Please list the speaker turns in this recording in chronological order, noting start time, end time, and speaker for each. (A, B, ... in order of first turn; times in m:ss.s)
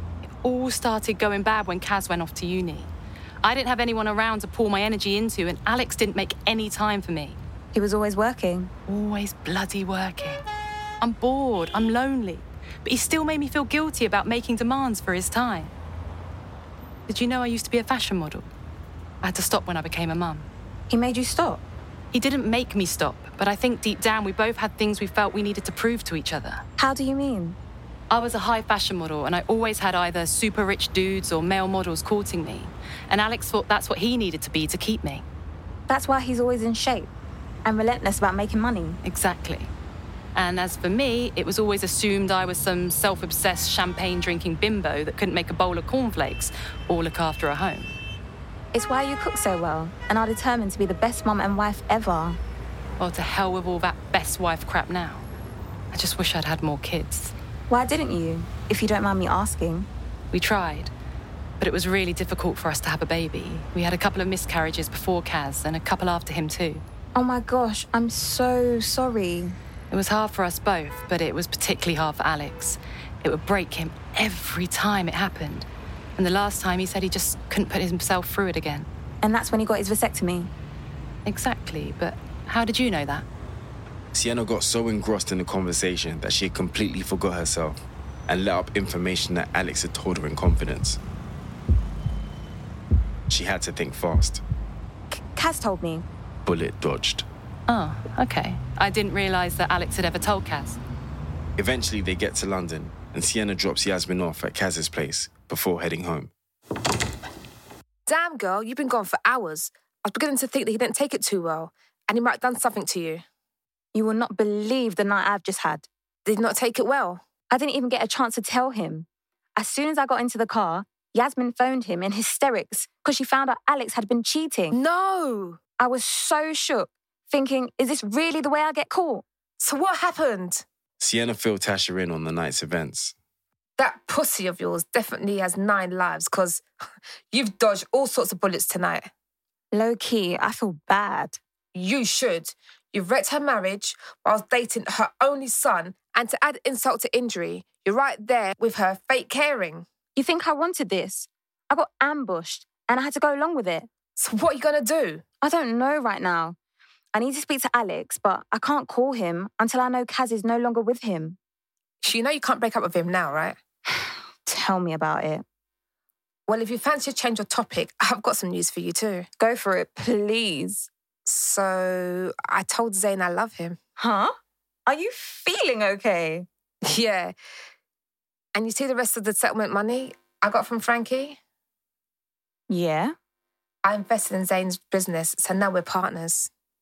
0:00.2-0:02.9 A
0:03.4-0:07.4 A
0:07.7-0:08.7 B
0:08.9-0:10.4 A
0:11.0-0:15.7 A
0:17.1-0:18.5 A
0:19.2-0:20.5 A
0:20.9-0:21.6 B
0:22.1-0:26.6 A
0:26.8-0:27.6 B
0:28.1-0:35.2 A
0:35.9-0:37.1 B
0:37.6-0:39.0 B
0:39.0-0:39.7 A
0:40.4-0:47.9 A
0:48.7-0:52.4 B
0:53.0-0:55.2 A
0:55.9-0:57.3 A
0:57.7-0:59.9 B
1:00.3-1:00.9 A
1:01.6-1:06.8 A
1:07.1-1:09.6 B
1:09.9-1:18.9 A
1:19.2-1:20.5 B
1:21.2-1:23.2 A
1:24.1-1:31.0 C
1:33.3-1:34.4 C
1:35.1-1:36.0 B
1:36.4-1:37.3 C
1:37.7-1:40.8 A
1:41.6-1:46.3 C
1:48.1-1:53.2 D
1:53.9-1:55.9 B
1:56.2-1:57.2 D
1:57.5-2:04.8 B
2:04.7-2:05.6 D
2:05.8-2:09.2 B
2:09.6-2:10.6 D
2:11.0-2:13.1 C
2:13.8-2:16.6 D
2:17.3-2:19.1 D
2:19.7-2:21.4 B
2:21.7-2:29.9 D
2:30.2-2:33.9 B
2:34.2-2:35.2 D
2:35.4-2:36.6 B
2:37.1-2:41.4 B
2:42.0-2:43.6 D
2:44.0-2:45.4 B
2:46.5-2:49.3 D
2:49.4-2:50.9 B
2:51.2-2:53.8 D
2:54.0-2:54.4 B
2:54.9-2:56.5 B
2:56.8-2:57.4 D
2:58.5-3:01.4 D
3:02.7-3:03.1 B
3:03.8-3:06.5 D